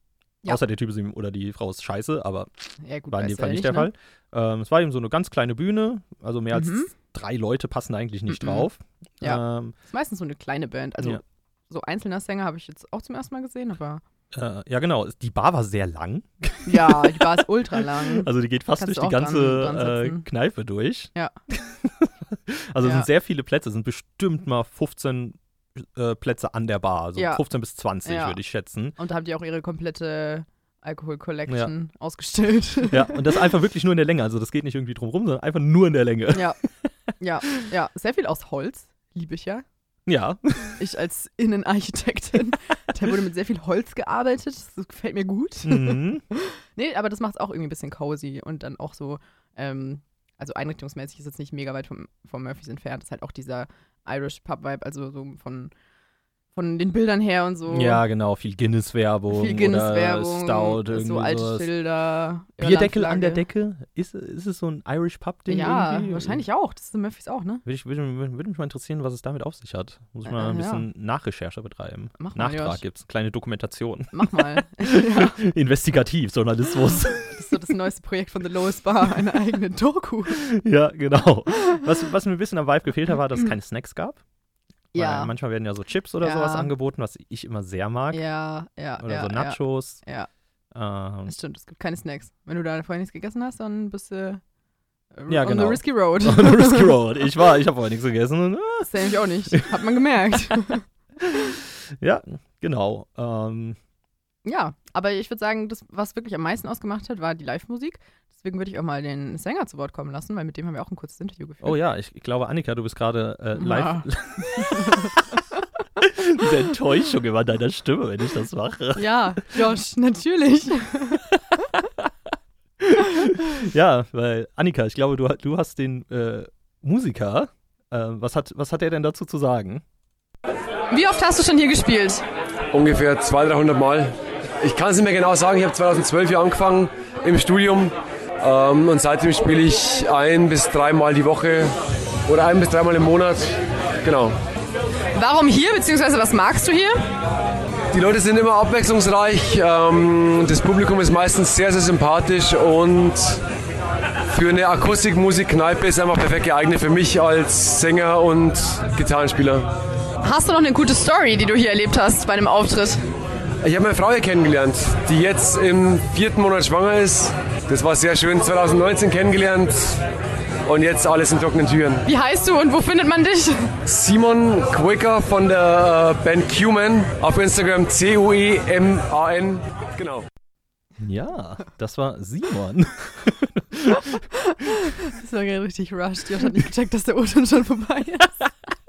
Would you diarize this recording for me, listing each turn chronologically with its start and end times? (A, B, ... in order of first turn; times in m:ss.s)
0:00.4-0:09.7 A
0:02.8-0:03.9 B
0:06.5-0:06.9 B
0:08.3-0:08.7 B
0:09.2-0:14.0 B
0:14.3-0:29.0 A
0:16.6-0:20.2 B
0:22.8-0:23.1 B
0:27.2-0:27.4 B
0:28.0-0:28.4 B
0:29.0-0:33.2 B
0:32.9-0:36.6 A
0:36.3-0:36.6 B
0:37.2-0:39.6 B
0:40.1-0:40.8 A
0:40.8-0:55.7 B
0:45.6-0:46.2 A
0:56.5-0:58.0 B
0:57.7-1:01.7 A
0:59.3-1:03.4 B
1:02.6-1:06.4 A
1:05.5-1:07.6 B
1:07.6-1:17.4 A
1:10.2-1:10.8 B
1:12.2-1:12.8 B
1:14.1-1:15.4 B
1:17.3-1:20.5 B
1:20.3-1:24.2 A
1:24.9-1:25.3 B
1:24.9-1:28.2 A
1:26.2-1:26.7 B
1:28.1-1:30.3 B
1:29.0-1:30.0 A
1:30.7-1:31.3 A
1:31.3-1:34.4 B
1:35.1-1:37.0 B
1:35.3-1:39.6 A
1:38.8-1:41.3 B
1:41.3-1:43.8 A
1:44.4-1:51.8 B
1:51.6-1:55.1 A
1:53.6-1:55.1 B
1:56.1-1:59.6 A
1:59.0-2:01.3 B
2:02.8-2:09.8 A
2:10.9-2:12.2 B
2:12.7-2:21.7 C
2:22.2-2:24.3 C
2:25.1-2:27.0 B
2:27.9-2:33.4 C
2:34.3-2:39.7 C
2:40.2-2:43.0 B
2:43.6-2:50.0 C
2:50.6-2:52.0 C
2:52.0-2:53.7 B
2:53.9-3:00.2 C
3:01.0-3:04.2 A
3:04.0-3:08.5 B